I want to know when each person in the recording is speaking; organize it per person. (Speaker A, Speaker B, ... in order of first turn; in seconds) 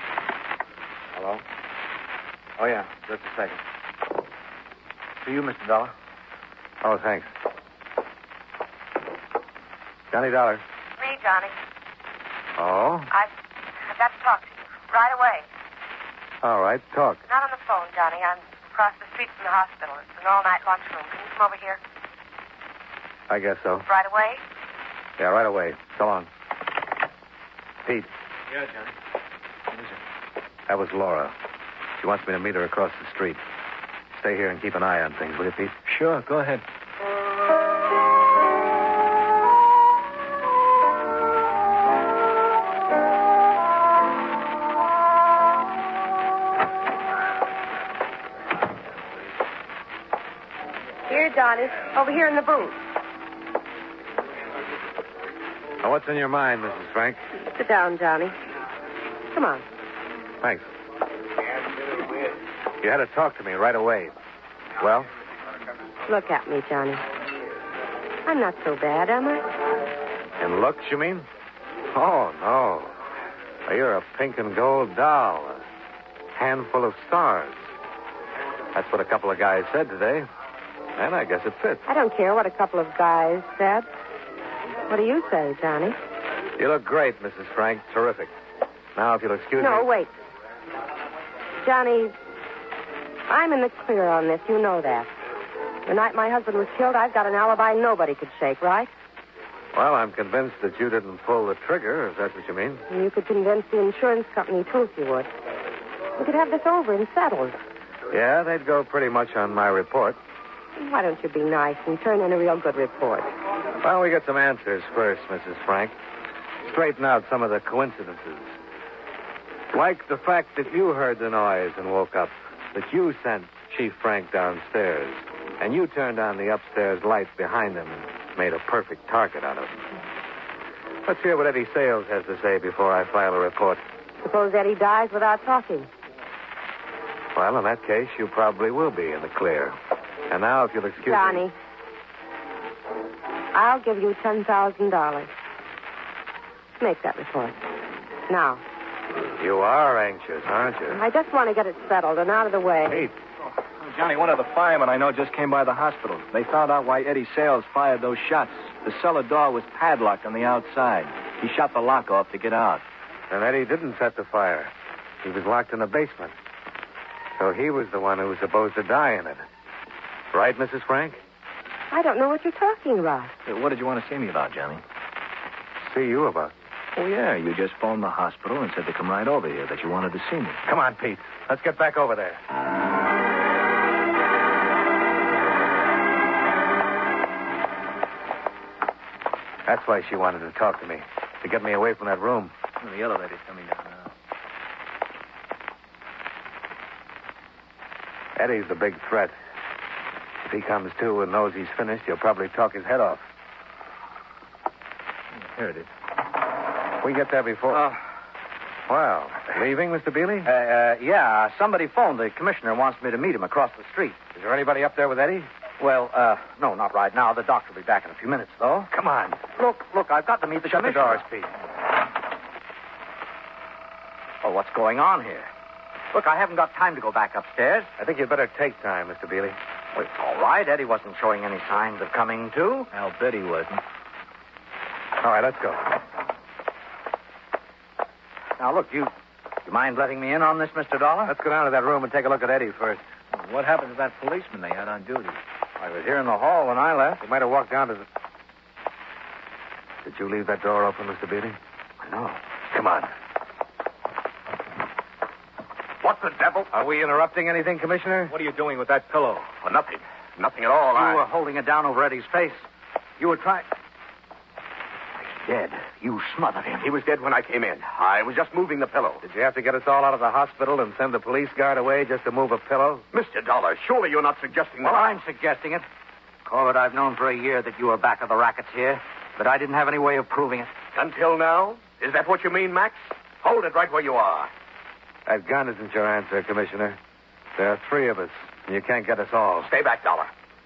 Speaker A: 1.1-1.4, 2.6-3.6, 5.2-5.9, 210.4-214.2, 215.8-218.9, 219.5-221.2, 224.4-225.5, 226.1-227.9, 229.9-232.9, 238.6-239.1, 239.7-241.3, 245.8-247.2, 252.0-252.4, 260.9-262.6, 263.2-263.7, 265.2-266.9, 274.8-275.9, 276.4-280.7
Speaker B: 6.8-7.3, 10.1-10.6, 12.6-13.1, 16.4-17.2, 23.3-23.9, 25.2-26.3, 27.8-28.1, 30.7-31.3, 32.0-33.4, 34.1-35.7, 55.8-57.2, 60.4-60.7, 62.8-64.1, 64.8-65.1, 70.4-71.3, 71.9-72.9, 73.7-75.6, 76.3-77.7, 78.7-80.3, 81.0-81.8, 86.6-88.3, 89.0-89.9, 99.7-102.8, 108.1-110.2, 113.8-116.0, 116.6-118.5, 119.7-129.8, 131.1-133.8, 137.3-139.8, 140.3-141.4, 149.4-151.0, 163.3-166.3, 167.4-169.4, 170.3-171.2, 175.8-176.5, 180.7-182.4, 189.7-192.5, 198.3-199.3, 200.4-203.2, 207.0-207.8, 208.9-210.5, 214.3-215.5, 218.9-219.5, 220.6-221.5, 228.0-229.6, 235.2-235.9, 241.2-243.0, 247.2-248.0, 250.0-251.6, 252.7-253.1, 256.7-258.3, 269.2-273.0, 285.2-287.0, 287.6-289.7
Speaker C: 11.0-11.5, 13.9-15.4, 17.3-21.8, 23.9-24.4, 51.1-52.8, 57.4-58.3, 59.3-59.6, 66.1-67.0, 68.2-69.4, 81.9-83.9, 84.9-86.0, 89.6-90.1, 91.6-92.1, 93.3-95.1, 95.9-98.9, 102.9-105.3, 106.2-107.6, 110.8-113.3, 134.2-135.9, 141.0-141.5, 143.5-145.3, 146.8-147.6, 148.3-148.6, 150.9-153.1, 171.9-173.3
Speaker D: 28.5-28.9, 35.9-36.6, 153.8-162.8, 173.4-174.8, 177.0-180.6, 192.8-194.1, 205.3-205.9, 232.9-233.8, 243.3-245.4, 258.3-259.5
Speaker E: 256.0-256.7, 259.6-261.2, 266.8-269.2, 273.1-275.1, 280.9-284.5, 289.6-290.3